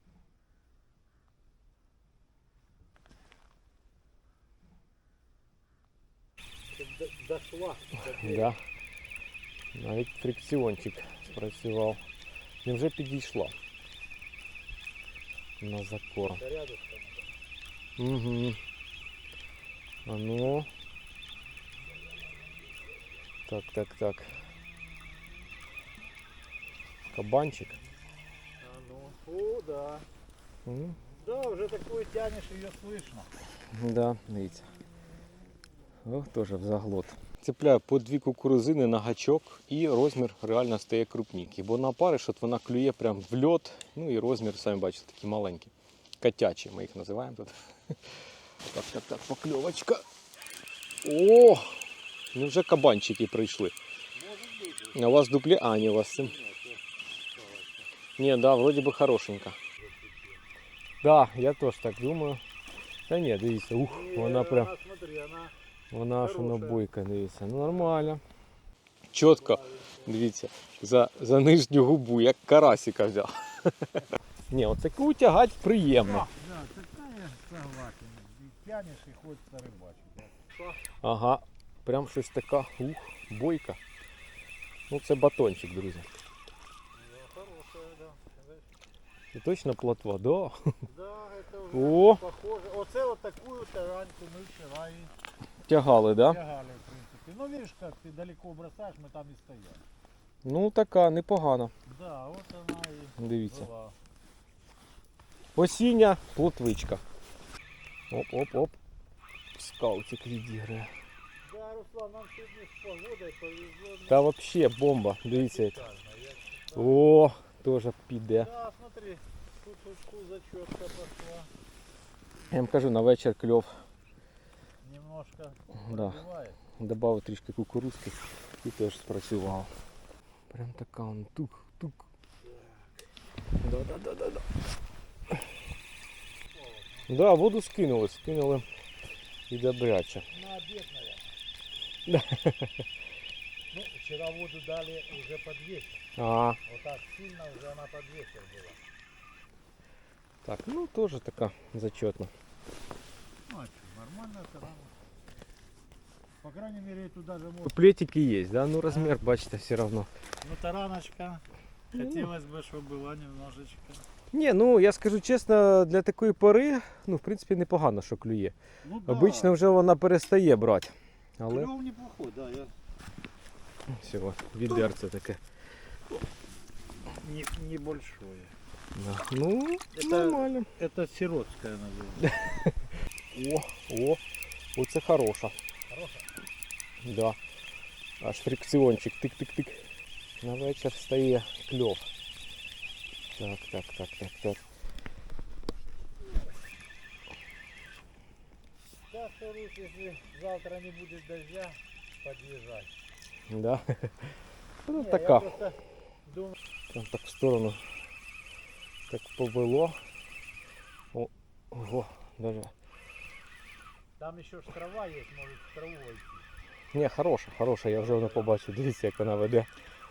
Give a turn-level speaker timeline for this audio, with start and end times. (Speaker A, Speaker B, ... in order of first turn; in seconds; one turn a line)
Speaker A: 6.7-8.5
Speaker B: 8.2-8.6
Speaker B: 9.7-12.0
Speaker B: 12.6-13.5
Speaker B: 15.6-16.4
Speaker A: 16.3-17.3
Speaker B: 18.0-18.6
Speaker B: 20.1-20.7
Speaker B: 23.5-24.4
Speaker B: 27.1-27.8
Speaker A: 28.6-30.1
Speaker B: 30.6-31.0
Speaker A: 31.2-33.3
Speaker B: 33.7-34.6
Speaker B: 36.0-47.9
Speaker B: 48.7-50.0
Speaker B: 51.0-51.8
Speaker B: 52.3-53.7
Speaker A: 54.1-55.1
Speaker B: 54.9-56.3
Speaker A: 55.9-57.9
Speaker B: 58.2-59.6
Speaker A: 59.8-60.4
Speaker B: 61.0-62.4
Speaker B: 63.1-64.7
Speaker A: 63.8-65.5
Speaker B: 65.9-68.2
Speaker A: 66.2-66.8
Speaker A: 67.7-68.0
Speaker B: 69.1-76.3
Speaker A: 69.2-70.2
Speaker A: 76.0-80.8
Speaker B: 81.0-83.8
Speaker B: 84.9-86.0
Speaker A: 86.9-88.6
Speaker B: 89.3-90.6
Speaker A: 90.8-95.1
Speaker B: 91.7-92.2
Speaker B: 95.7-96.4
Speaker A: 96.2-99.8
Speaker B: 100.4-101.7
Speaker A: 101.8-104.0
Speaker B: 103.2-103.7
Speaker B: 105.5-107.0
Speaker B: 108.1-108.8
Speaker B: 109.5-110.9
Speaker A: 111.4-114.3
Speaker B: 114.1-115.8
Speaker A: 115.3-117.0
Speaker B: 116.7-118.5
Speaker A: 118.3-121.5
Speaker B: 122.5-123.7
Speaker A: 124.8-126.6
Speaker B: 125.8-126.2
Speaker B: 126.8-129.7
Speaker B: 130.5-132.0
Speaker A: 132.4-132.9
Speaker B: 133.6-134.4
Speaker A: 136.5-137.3
Speaker B: 137.1-138.6
Speaker B: 139.5-140.2
Speaker A: 140.3-141.3
Speaker B: 142.1-142.8
Speaker A: 143.7-146.0
Speaker B: 146.2-146.6
Speaker A: 146.6-148.8
Speaker B: 150.4-152.3
Speaker A: 153.4-155.0
Speaker A: 156.4-157.8
Speaker B: 157.6-160.1
Speaker A: 158.9-159.2
Speaker A: 160.4-164.1
Speaker B: 161.9-162.3
Speaker B: 164.3-171.7
Speaker A: 168.8-169.6
Speaker A: 171.5-172.7
Speaker B: 173.9-175.4
Speaker A: 177.1-178.5
Speaker B: 178.9-180.7
Speaker A: 179.9-182.3
Speaker B: 182.2-182.7
Speaker B: 183.3-184.2
Speaker B: 184.8-185.5
Speaker A: 185.9-186.3
Speaker B: 187.0-187.4
Speaker B: 188.2-189.8
Speaker B: 190.4-192.1
Speaker B: 193.4-194.6
Speaker A: 199.1-202.9
Speaker B: 203.5-204.3
Speaker B: 204.8-205.5
Speaker A: 204.9-206.6
Speaker B: 206.9-207.8
Speaker B: 209.1-210.0
Speaker B: 211.1-212.7
Speaker A: 214.2-216.5
Speaker B: 216.9-219.7
Speaker A: 217.9-218.5